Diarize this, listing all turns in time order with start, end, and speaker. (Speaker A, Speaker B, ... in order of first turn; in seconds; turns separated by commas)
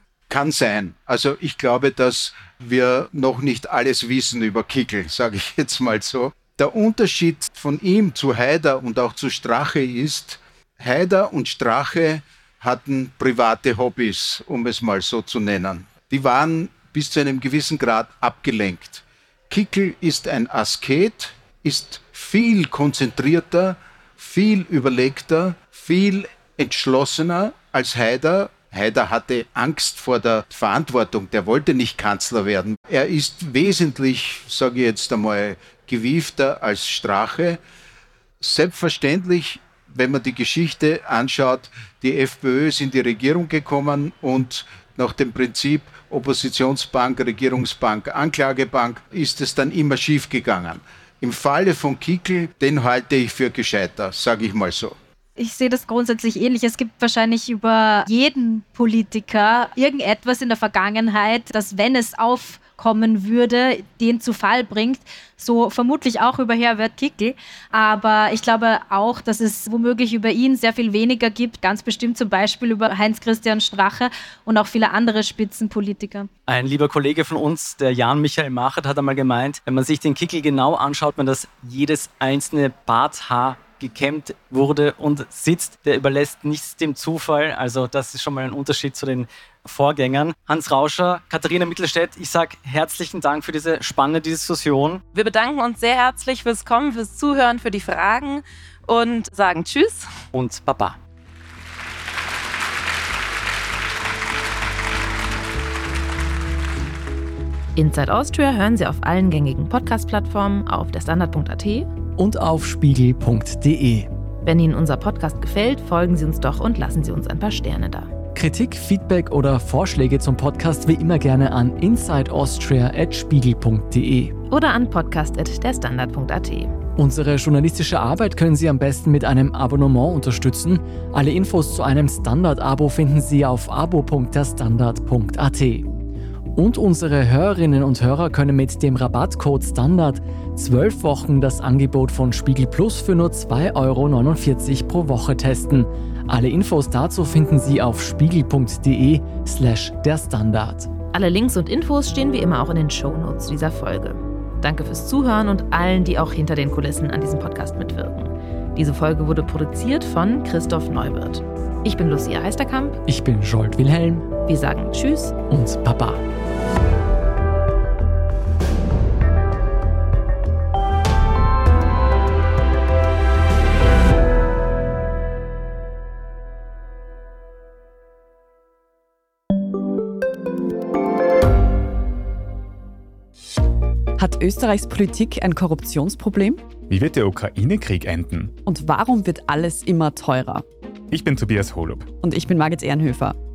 Speaker A: 0.3-37.6, Speaker A: 38.4-54.9, Speaker B: 55.4-76.3, Speaker C: 76.5-95.0, Speaker D: 95.1-100.1, Speaker C: 100.3-101.0, Speaker D: 107.8-111.9, Speaker C: 112.2-114.1, Speaker D: 114.4-118.1, Speaker C: 118.3-124.3, Speaker D: 124.5-126.7, Speaker C: 127.0-135.9, Speaker C: 136.5-150.9, Speaker D: 151.1-163.0, Speaker C: 163.1-164.3, Speaker D: 164.4-165.3, Speaker C: 165.5-166.2, Speaker E: 184.2-186.7, Speaker F: 186.9-188.6, Speaker E: 188.6-190.7, Speaker F: 191.1-192.1, Speaker E: 192.2-193.4